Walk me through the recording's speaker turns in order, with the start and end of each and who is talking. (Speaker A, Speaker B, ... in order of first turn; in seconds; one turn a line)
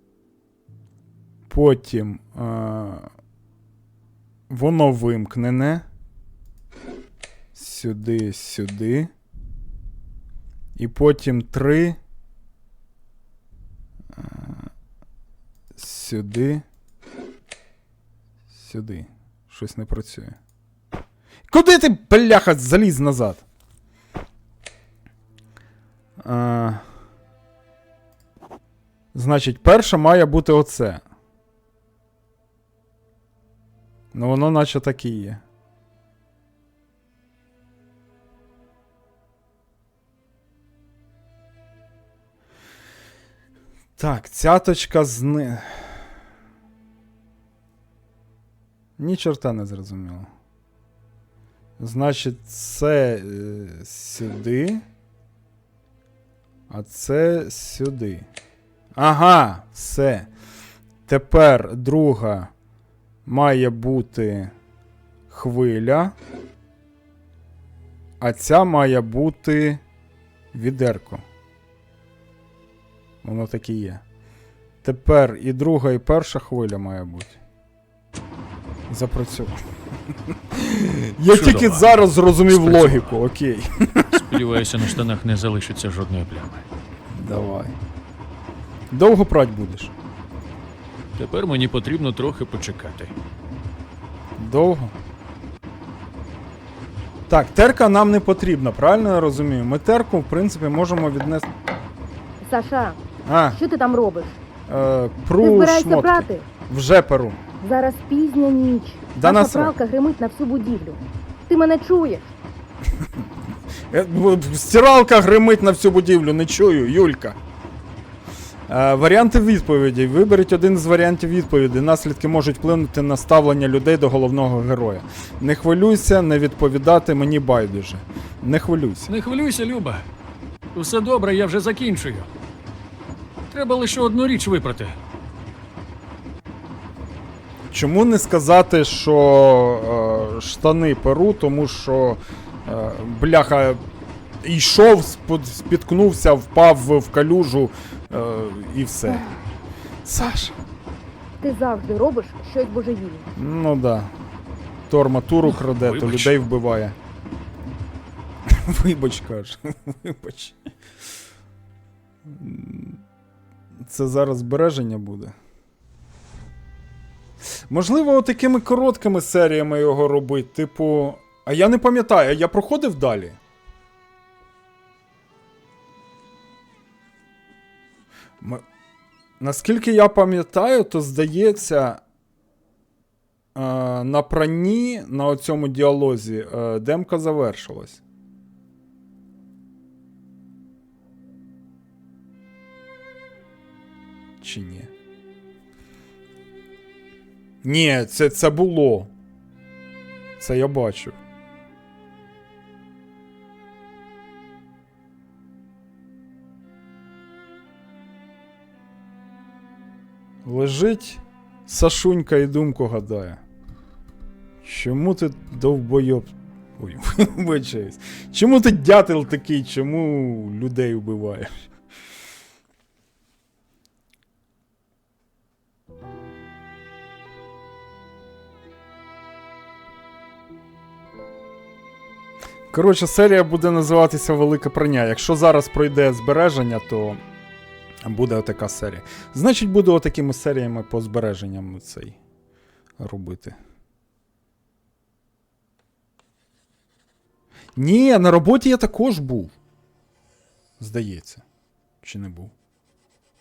Speaker A: 1.5-3.1
Speaker A: 4.5-5.8
Speaker A: 7.5-9.1
Speaker A: 10.8-12.0
Speaker A: 14.1-14.7
Speaker A: 15.7-16.6
Speaker A: 18.5-20.4
Speaker A: 21.5-23.4
Speaker A: 26.2-26.9
Speaker A: 29.1-31.0
Speaker A: 34.1-35.4
Speaker A: 44.0-46.1
Speaker A: 49.0-50.3
Speaker A: 51.8-54.8
Speaker A: 56.7-58.3
Speaker A: 59.0-60.3
Speaker A: 61.1-62.5
Speaker A: 63.2-64.5
Speaker A: 65.3-66.2
Speaker A: 68.2-69.8
Speaker A: 70.5-71.2
Speaker A: 73.2-74.0
Speaker A: 74.8-77.4
Speaker A: 78.9-84.4
Speaker B: 81.3-81.9
Speaker B: 82.5-83.2
Speaker B: 84.1-86.6
Speaker A: 87.1-87.8
Speaker A: 88.9-89.9
Speaker B: 91.2-93.1
Speaker A: 94.4-94.9
Speaker A: 97.3-101.5
Speaker C: 102.4-103.0
Speaker A: 103.3-103.6
Speaker C: 103.5-104.4
Speaker A: 104.7-107.4
Speaker C: 105.4-106.5
Speaker C: 107.6-112.3
Speaker A: 109.2-109.7
Speaker A: 113.0-113.2
Speaker A: 113.9-117.4
Speaker A: 118.7-129.1
Speaker B: 129.1-130.1
Speaker B: 130.7-132.3
Speaker B: 133.5-135.0
Speaker A: 137.7-143.8
Speaker A: 144.4-149.4
Speaker A: 150.0-150.6
Speaker C: 151.4-153.3
Speaker A: 153.3-154.1
Speaker A: 154.9-156.9
Speaker B: 155.4-156.3
Speaker A: 158.4-160.6
Speaker A: 162.2-163.0
Speaker A: 163.8-165.3
Speaker A: 167.7-173.4
Speaker A: 178.4-178.6
Speaker A: 179.4-182.0
Speaker A: 183.5-188.0
Speaker A: 194.4-194.9
Speaker A: 197.6-199.1
Speaker A: 200.4-201.2
Speaker A: 210.4-213.4
Speaker A: 214.6-221.7
Speaker A: 232.7-237.2
Speaker A: 238.0-242.2
Speaker A: 243.0-243.6
Speaker A: 247.8-249.5
Speaker A: 250.8-251.4
Speaker A: 252.0-252.5